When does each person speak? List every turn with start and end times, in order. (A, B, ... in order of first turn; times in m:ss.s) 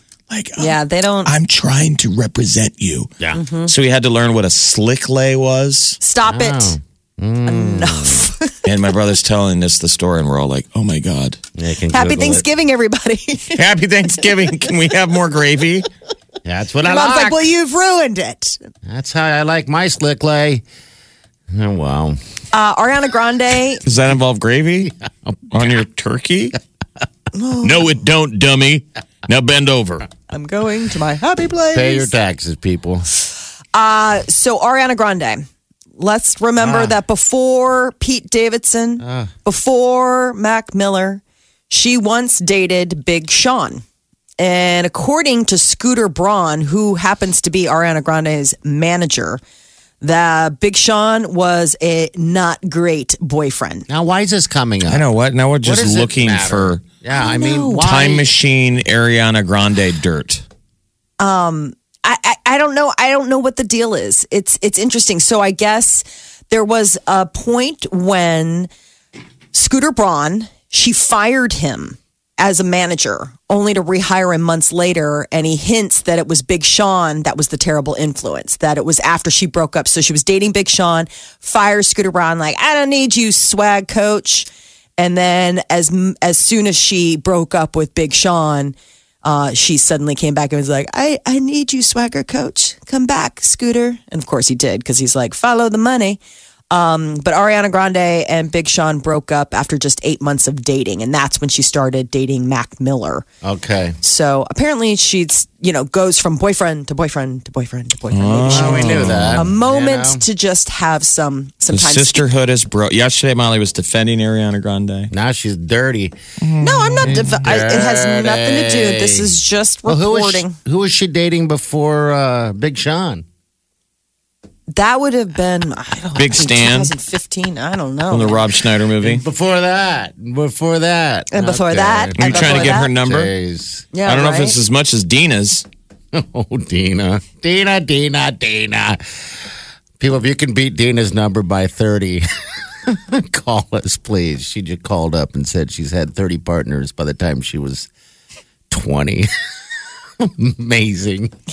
0:00.3-0:03.1 A
0:00.6-0:01.3 B
0:03.3-0:03.7 B
0:03.6-0:06.0 A
0:06.0-0:06.8 B
0:06.3-0:08.3 C
0:07.4-0:08.6 B
0:08.6-0:11.4 A
0:11.6-0:12.4 C
0:11.9-0:13.6 B
0:13.5-0:15.8 A
0:16.4-0:17.4 C
0:16.8-0:18.6 B
0:18.8-0:20.6 C
0:21.5-0:22.2 C
0:22.5-0:23.8 B
0:23.8-0:24.9 A
0:25.5-0:26.6 A
0:27.3-0:27.9 B
0:27.6-0:30.1 A
0:30.3-0:32.1 B
0:31.7-0:33.0 C
0:33.7-0:35.4 B
0:36.0-0:43.8 B
0:36.6-0:36.9 C
0:39.0-0:39.3 C
0:44.4-0:49.4 B
0:50.0-0:53.9 B
0:53.9-0:55.1 C
0:54.9-0:56.8 A
0:55.6-0:58.3 C
0:57.2-0:57.5 B
0:57.4-1:00.4 A
1:01.2-1:08.7 B
1:09.5-1:36.2 B
1:36.7-1:43.2 B
1:43.4-1:44.0 C
1:44.0-1:52.3 B
1:48.1-1:49.5 A
1:48.4-1:50.2 C
1:51.7-1:55.1 A
1:55.1-1:56.1 C
1:56.4-1:57.4 A
1:56.6-2:00.6 B
1:57.0-2:03.2 C
2:04.7-2:08.4 B
2:06.1-2:06.9 A
2:08.1-2:09.2 A
2:09.0-2:13.9 C
2:11.3-2:12.9 B
2:12.2-2:13.3 A
2:13.9-2:14.6 B
2:14.0-2:15.7 A
2:16.1-2:19.0 C
2:20.0-2:22.2 C
2:22.8-2:27.9 C
2:28.7-2:29.3 C
2:30.2-2:31.3 C